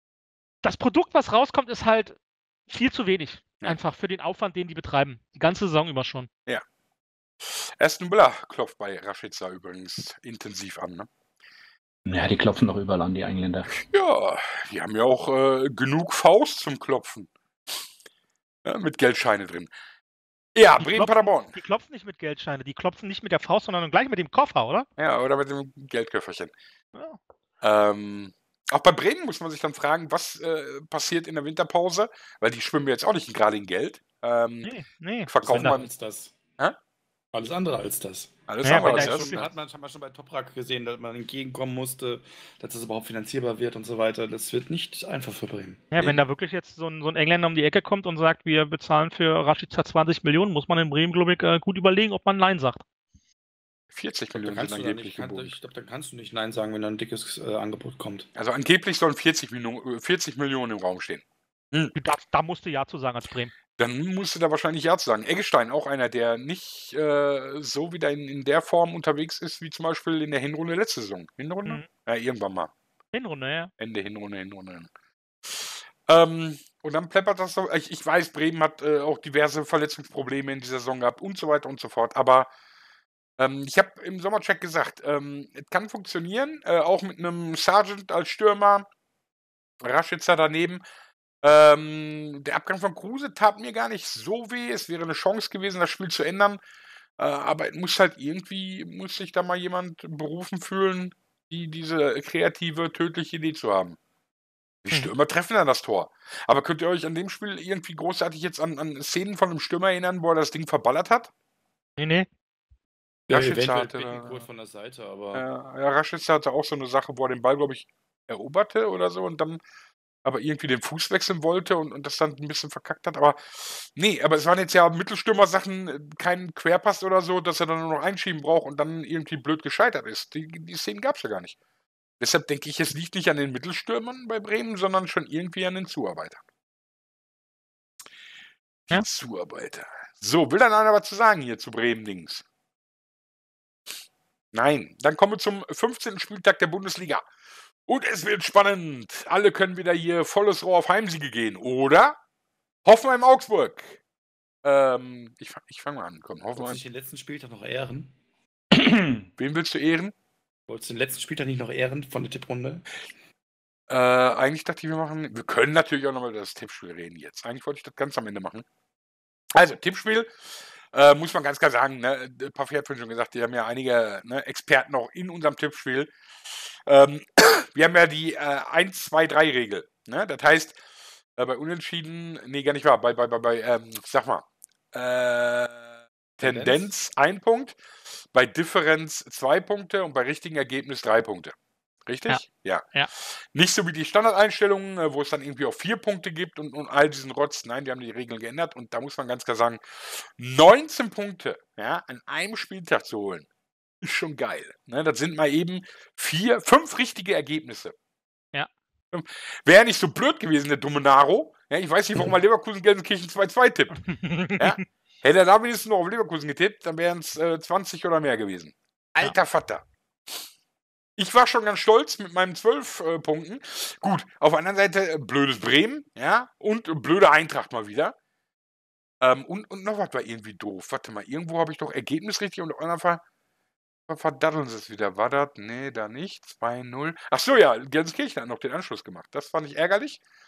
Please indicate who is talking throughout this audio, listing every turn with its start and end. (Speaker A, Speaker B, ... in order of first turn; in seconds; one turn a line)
Speaker A: 0.6-2.1
Speaker A: 2.7-6.3
Speaker B: 7.4-11.1
Speaker C: 12.1-13.7
Speaker B: 13.7-17.3
Speaker B: 18.6-19.7
Speaker B: 20.5-21.5
Speaker A: 20.8-24.9
Speaker B: 25.0-26.5
Speaker A: 26.9-27.2
Speaker B: 27.6-35.9
Speaker A: 34.6-35.8
Speaker D: 35.4-36.3
Speaker D: 37.3-45.8
Speaker B: 38.5-39.5
Speaker A: 38.6-39.5
Speaker A: 45.9-52.8
Speaker B: 53.9-55.5
Speaker D: 54.3-58.3
Speaker B: 58.4-61.9
Speaker A: 62.0-63.5
Speaker B: 63.8-72.7
Speaker A: 73.1-73.7
Speaker B: 73.8-74.9
Speaker B: 75.5-82.5
Speaker B: 83.4-88.8
Speaker B: 89.8-90.8
Speaker B: 91.4-96.6
Speaker B: 97.2-104.0
Speaker B: 104.8-111.3
Speaker A: 112.0-112.3
Speaker D: 113.3-115.4
Speaker B: 113.3-114.4
Speaker B: 115.3-119.6
Speaker B: 120.2-131.6
Speaker B: 132.2-136.4
Speaker B: 138.9-142.4
Speaker B: 144.5-147.2
Speaker B: 147.9-152.2
Speaker B: 152.8-154.0
Speaker B: 154.6-156.8
Speaker D: 156.6-158.1
Speaker C: 158.7-159.3
Speaker B: 159.4-160.1
Speaker D: 160.7-162.8
Speaker B: 163.9-168.6
Speaker B: 169.5-180.8
Speaker B: 181.4-187.8
Speaker D: 186.4-186.9
Speaker B: 188.3-191.5
Speaker B: 192.1-203.4
Speaker B: 204.0-207.9
Speaker B: 209.1-214.0
Speaker A: 214.1-214.7
Speaker B: 214.6-219.8
Speaker B: 221.2-228.1
Speaker B: 229.2-233.2
Speaker B: 234.1-240.2